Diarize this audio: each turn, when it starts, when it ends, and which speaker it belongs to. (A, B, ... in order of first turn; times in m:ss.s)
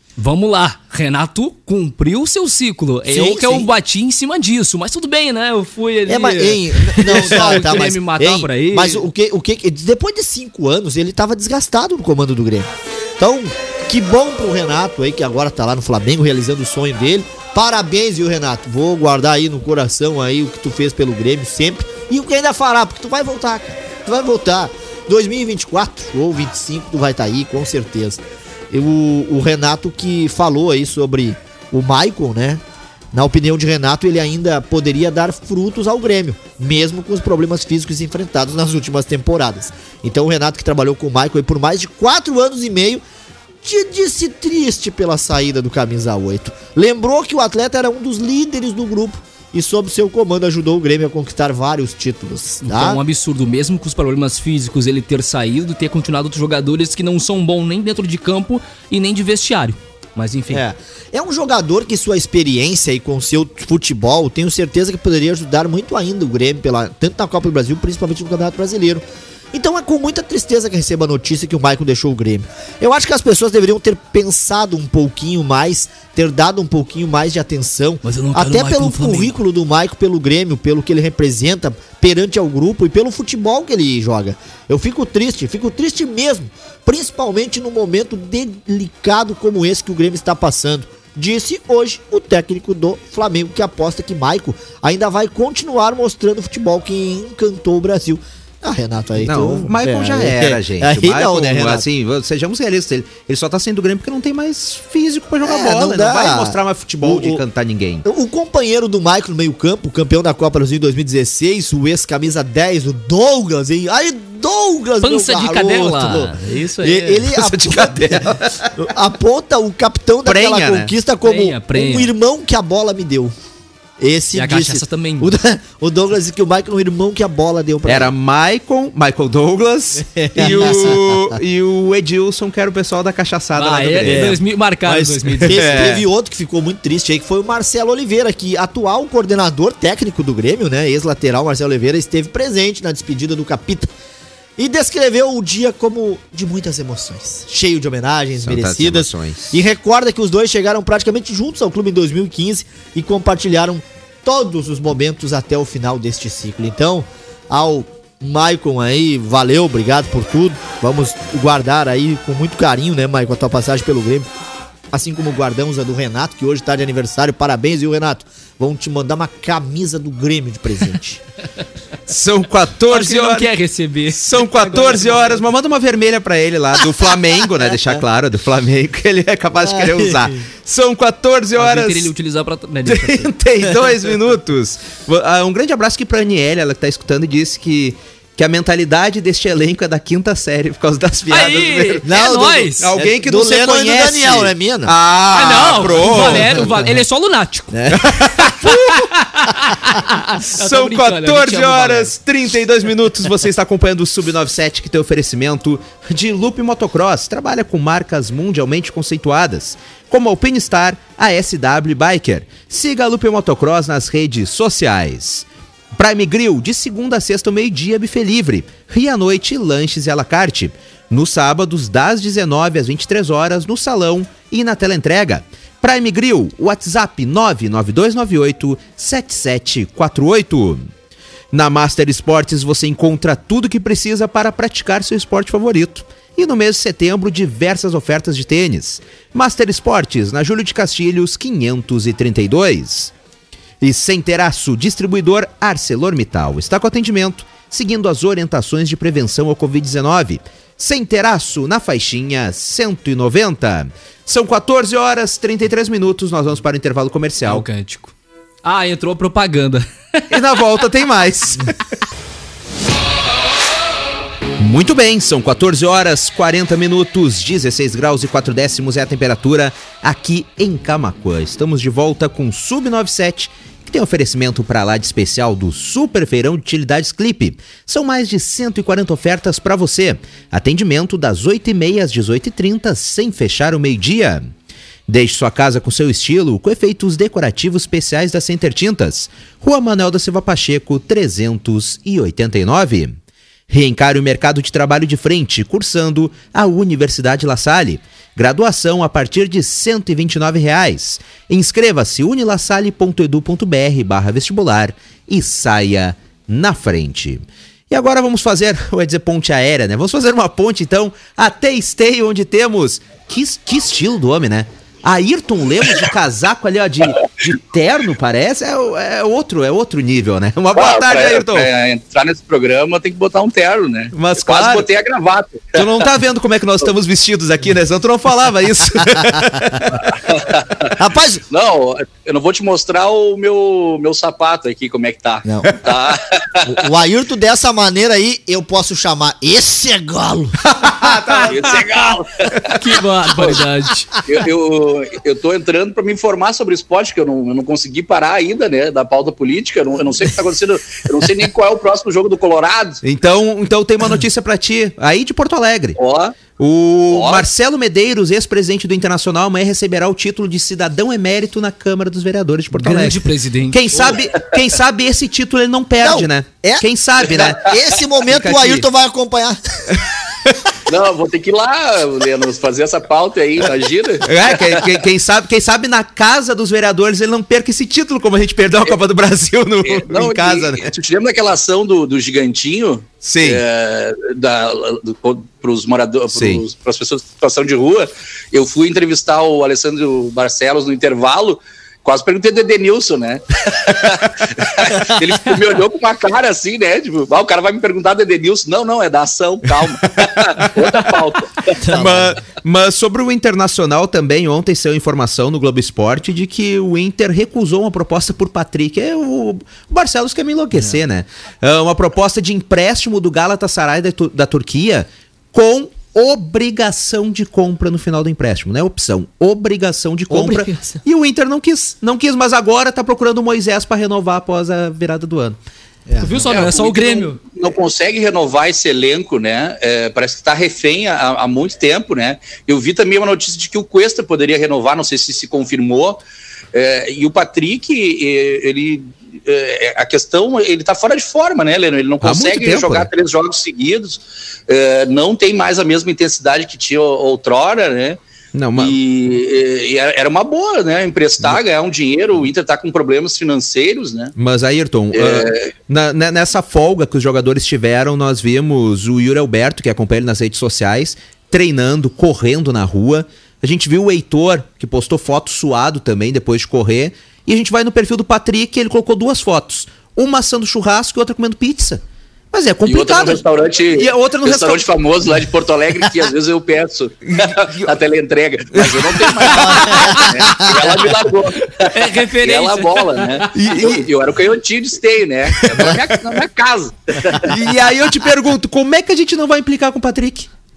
0:00.2-0:09.1 A
0:03.1-0:03.7 B
0:06.1-0:32.6 B
0:33.1-0:43.0 B
0:43.6-0:53.0 B
0:52.6-1:00.6 A
1:00.5-1:41.8 B
1:18.0-1:19.4 A
1:39.2-1:48.1 C
1:45.4-1:47.4 B
1:48.0-2:03.3 B
1:55.0-1:57.2 A
1:57.4-1:58.7 C
2:00.2-2:00.9 C
2:01.2-2:02.1 A
2:04.0-2:08.1 B
2:04.3-2:05.3 A
2:07.8-2:14.3 C
2:10.0-2:11.4 B
2:13.6-2:15.8 A
2:14.0-2:23.9 B
2:15.4-2:16.0 C
2:24.6-2:44.3 B
2:28.4-2:29.6 C
2:44.9-2:51.2 B
2:52.1-2:53.5 C
2:52.9-2:55.4 A
2:54.1-3:02.1 C
2:59.6-3:00.4 B
3:01.6-3:03.3 A
3:02.9-3:12.1 C
3:11.3-3:12.9 A
3:12.0-3:16.9 B
3:12.8-3:16.7 C
3:15.3-3:17.7 A
3:17.7-3:18.2 B
3:17.9-3:19.1 C
3:18.5-3:22.1 A
3:20.4-3:50.8 C
3:51.5-4:03.1 C
4:03.8-4:17.7 C
4:17.5-4:20.4 A
4:20.3-4:21.8 C
4:24.6-4:44.5 C
4:45.1-4:53.2 C
4:53.7-5:21.7 C
5:20.8-5:26.0 D
5:24.1-5:24.9 C
5:25.8-5:30.2 C
5:30.3-5:31.0 D
5:31.0-5:31.4 B
5:31.5-5:36.7 D
5:35.4-5:35.7 B
5:36.6-5:41.2 B
5:40.7-5:41.7 C
5:41.5-5:42.8 D
5:42.7-5:44.1 A
5:44.3-5:53.0 D
5:53.0-5:56.0 C
5:56.0-5:56.4 D
5:56.6-6:08.9 C
5:57.1-5:57.5 D
6:02.7-6:04.2 A
6:06.0-6:09.9 B
6:10.9-6:14.8 D
6:14.2-6:20.9 C
6:19.8-6:42.2 D
6:23.2-6:23.6 C
6:26.3-6:26.6 C
6:40.2-6:41.2 C
6:41.8-6:42.4 B
6:41.9-7:05.6 C
6:50.7-6:51.0 B
7:00.3-7:01.0 B
7:06.1-7:06.5 B
7:06.2-7:07.4 A
7:06.5-7:16.2 D
7:16.7-7:28.2 D
7:22.2-7:23.1 C
7:28.5-7:29.0 C
7:28.8-7:34.3 D
7:34.4-7:55.0 C
7:35.1-7:35.7 D
7:52.9-8:07.6 D
7:57.3-7:57.9 C
7:58.7-8:00.0 C
8:00.0-8:01.0 B
8:01.8-8:03.6 A
8:03.5-8:04.1 C
8:05.6-8:06.3 C
8:07.4-8:10.5 C